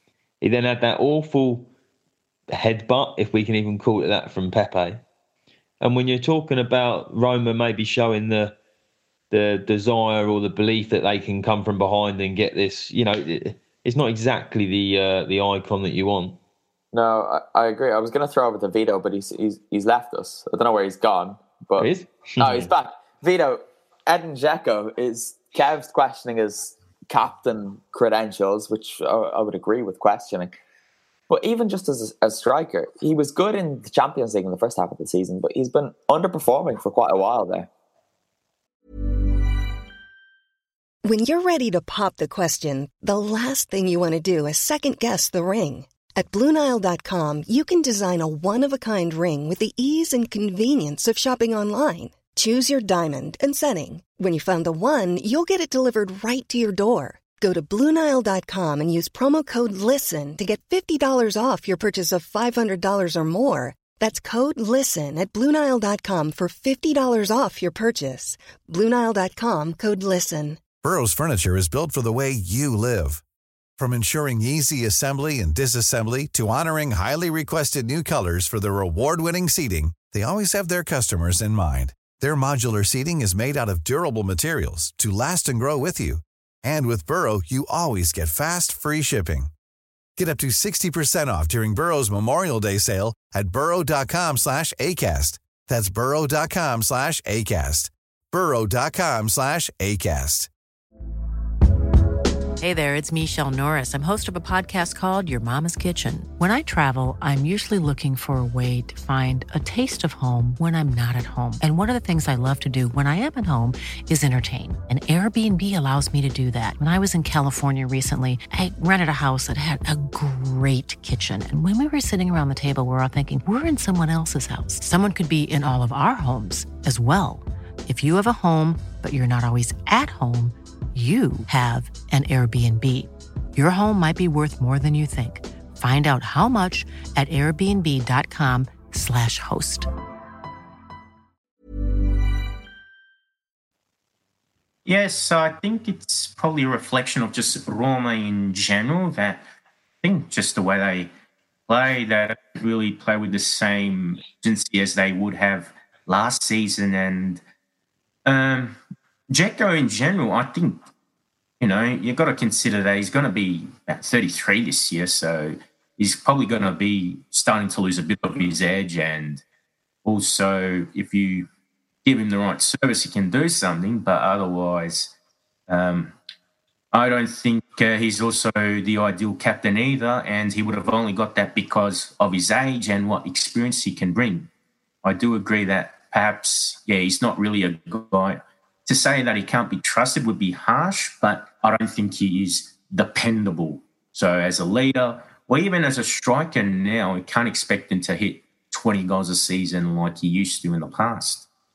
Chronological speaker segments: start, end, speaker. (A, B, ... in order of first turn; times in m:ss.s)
0:00.4-0:01.7 A
0:02.5-0:05.0 A
0:05.8-0:08.5 A
0:09.3-0:16.4 A
0:16.9-0:30.6 B
0:21.8-0:22.7 A
0:31.3-0:37.7 B
0:41.0-1:10.6 C
1:10.8-1:13.2 D
1:13.8-1:29.5 D
1:30.2-1:40.5 D
1:42.6-2:19.9 E
2:24.8-2:29.4 F
2:30.0-2:31.1 F
2:31.7-2:37.4 F
2:38.2-2:38.8 F
2:39.3-2:40.8 F
2:41.6-2:49.4 F
2:50.0-2:51.5 F
2:52.0-2:55.1 F
2:55.7-2:56.1 F
2:56.9-3:04.5 F
3:05.0-3:21.5 F